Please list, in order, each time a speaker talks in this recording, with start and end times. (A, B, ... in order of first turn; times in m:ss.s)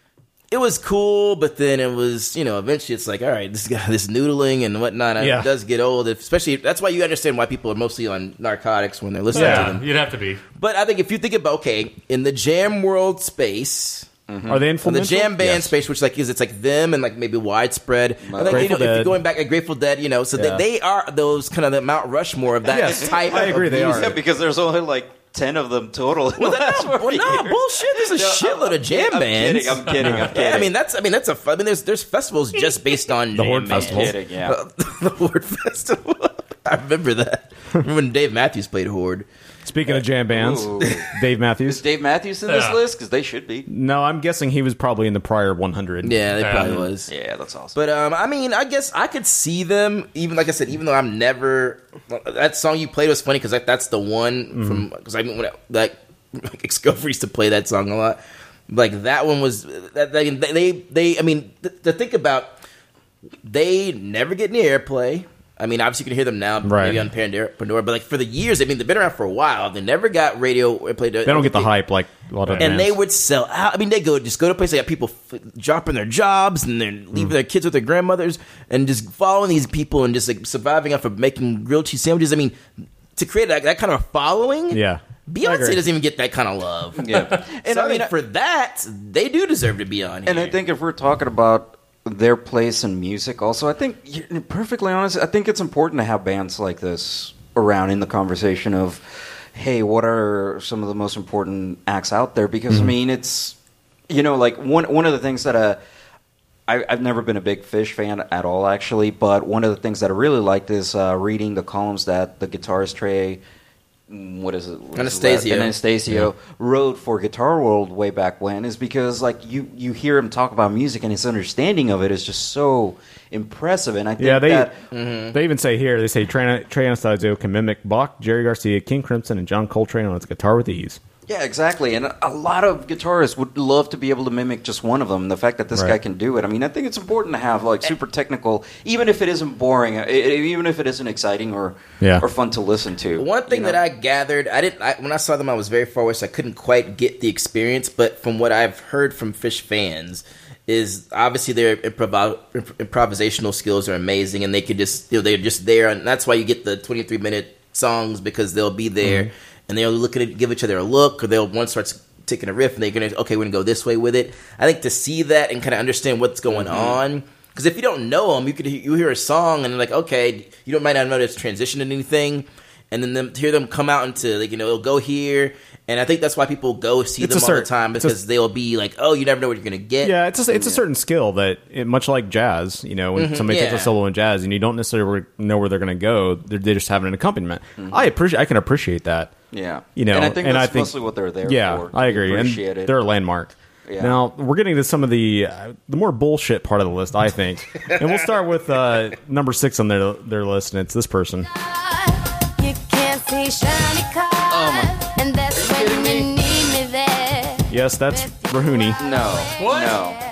0:00.5-0:09.8 A
0:05.2-0:05.5 B
0:09.3-0:10.4 C
0:09.3-0:09.7 B
0:10.6-0:14.1 A
0:14.3-0:14.7 D
0:14.5-0:15.7 B
0:14.8-0:24.2 A
0:18.2-0:18.8 D
0:18.5-0:19.2 B
0:20.4-0:20.6 B
0:22.7-0:24.2 B
0:22.7-0:30.7 D
0:26.4-0:39.3 A
0:30.0-0:30.3 B
0:33.3-0:34.2 B
0:33.7-0:34.6 D
0:39.6-0:41.8 B
0:40.3-0:41.1 D
0:41.7-0:43.7 D
0:42.5-0:42.8 C
0:43.7-0:46.2 B
0:46.0-0:47.1 A
0:46.4-0:46.8 C
0:46.6-0:47.8 D
0:47.8-1:02.6 A
0:54.5-0:54.9 B
1:03.4-1:11.7 A
1:06.6-1:07.0 B
1:11.2-1:13.0 B
1:12.4-1:12.7 C
1:12.6-1:22.6 A
1:23.2-1:30.6 A
1:24.7-1:25.8 B
1:27.0-1:28.1 D
1:30.2-1:43.6 D
1:44.1-1:45.8 D
1:46.7-1:53.4 D
1:54.1-2:04.8 D
1:55.0-1:55.8 A
2:04.2-2:04.7 B
2:04.9-2:05.4 A
2:05.3-2:11.0 B
2:11.3-2:23.8 D
2:23.2-3:00.1 A
2:39.0-2:39.3 B
2:46.5-2:47.0 D
2:57.2-2:58.2 B
3:00.0-3:09.3 B
3:00.5-3:00.8 D
3:03.2-3:03.9 A
3:09.5-3:13.0 D
3:10.0-3:10.9 B
3:11.4-3:21.5 B
3:13.9-3:14.2 D
3:21.8-3:28.3 E
3:24.5-3:24.9 D
3:25.5-3:26.3 D
3:27.7-3:29.0 B
3:29.0-3:30.2 D
3:29.6-3:30.0 C